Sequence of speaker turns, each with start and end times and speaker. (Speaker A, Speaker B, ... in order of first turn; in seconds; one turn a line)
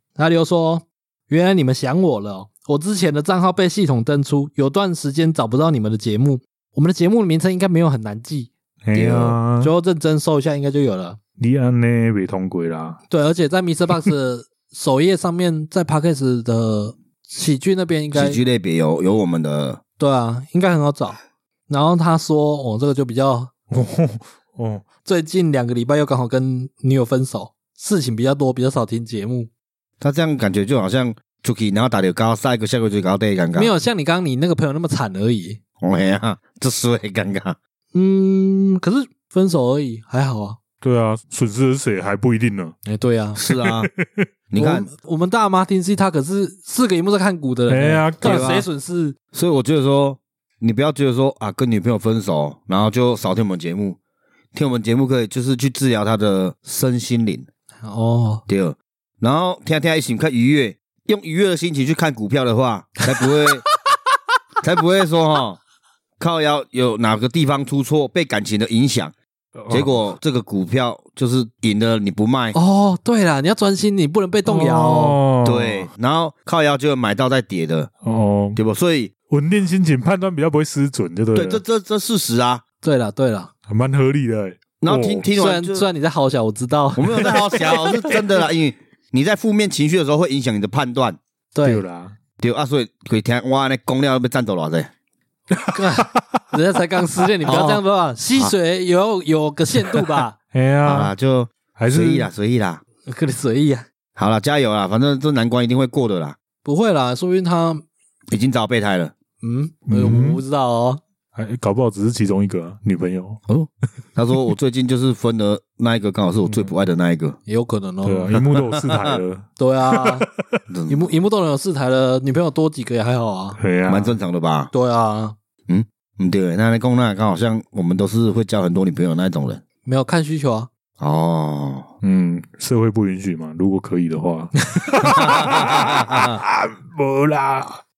Speaker A: 0.2-8.5
Speaker B: 8.8-9.7
Speaker C: 8.9-9.4
Speaker A: 9.6-11.2
Speaker B: 11.4-13.0
Speaker A: 13.1-18.4
Speaker C: 18.1-19.8
Speaker A: 20.0-21.2
Speaker A: 21.7-23.5
Speaker B: 23.7-24.9
Speaker A: 25.1-29.5
Speaker C: 30.0-33.7
Speaker A: 33.5-35.6
Speaker C: 35.8-37.6
Speaker A: 37.9-40.6
Speaker B: 40.8-42.8
Speaker A: 42.9-43.4
Speaker C: 43.4-43.9
Speaker B: 43.5-44.3
Speaker C: 44.5-44.9
Speaker A: 44.6-49.2
Speaker B: 47.7-48.6
Speaker C: 48.2-48.7
Speaker C: 49.3-54.0
Speaker C: 54.5-57.5
Speaker A: 57.8-58.4
Speaker C: 58.5-63.6
Speaker C: 64.6-65.6
Speaker C: 66.2-69.2
Speaker B: 69.6-70.0
Speaker C: 69.7-72.6
Speaker A: 72.5-75.2
Speaker B: 74.5-75.9
Speaker C: 75.4-77.9
Speaker B: 78.0-78.6
Speaker C: 78.6-79.1
Speaker B: 79.3-81.6
Speaker C: 81.3-82.6
Speaker A: 82.8-83.5
Speaker B: 83.7-85.3
Speaker C: 84.8-85.9
Speaker A: 85.4-87.4
Speaker C: 87.0-91.2
Speaker A: 91.5-91.8
Speaker B: 91.6-92.2
Speaker C: 92.4-94.9
Speaker B: 95.6-96.4
Speaker A: 95.7-100.3
Speaker C: 97.5-97.8
Speaker B: 100.5-101.1
Speaker C: 100.8-102.8
Speaker B: 101.8-102.3
Speaker A: 103.1-103.9
Speaker C: 104.2-106.4
Speaker A: 106.6-107.8
Speaker C: 108.3-109.1
Speaker A: 109.4-111.0
Speaker B: 109.9-110.4
Speaker B: 111.4-113.4
Speaker C: 113.5-117.4
Speaker B: 116.5-116.7
Speaker A: 117.5-118.4
Speaker B: 118.0-120.6
Speaker C: 118.3-119.2
Speaker A: 119.6-120.3
Speaker C: 120.7-121.0
Speaker A: 120.9-123.6
Speaker B: 123.6-124.2
Speaker C: 123.9-124.7
Speaker A: 124.7-125.4
Speaker C: 125.7-129.6
Speaker A: 129.8-130.7
Speaker C: 131.0-131.9
Speaker B: 132.0-137.8
Speaker C: 135.2-136.2
Speaker A: 136.1-136.3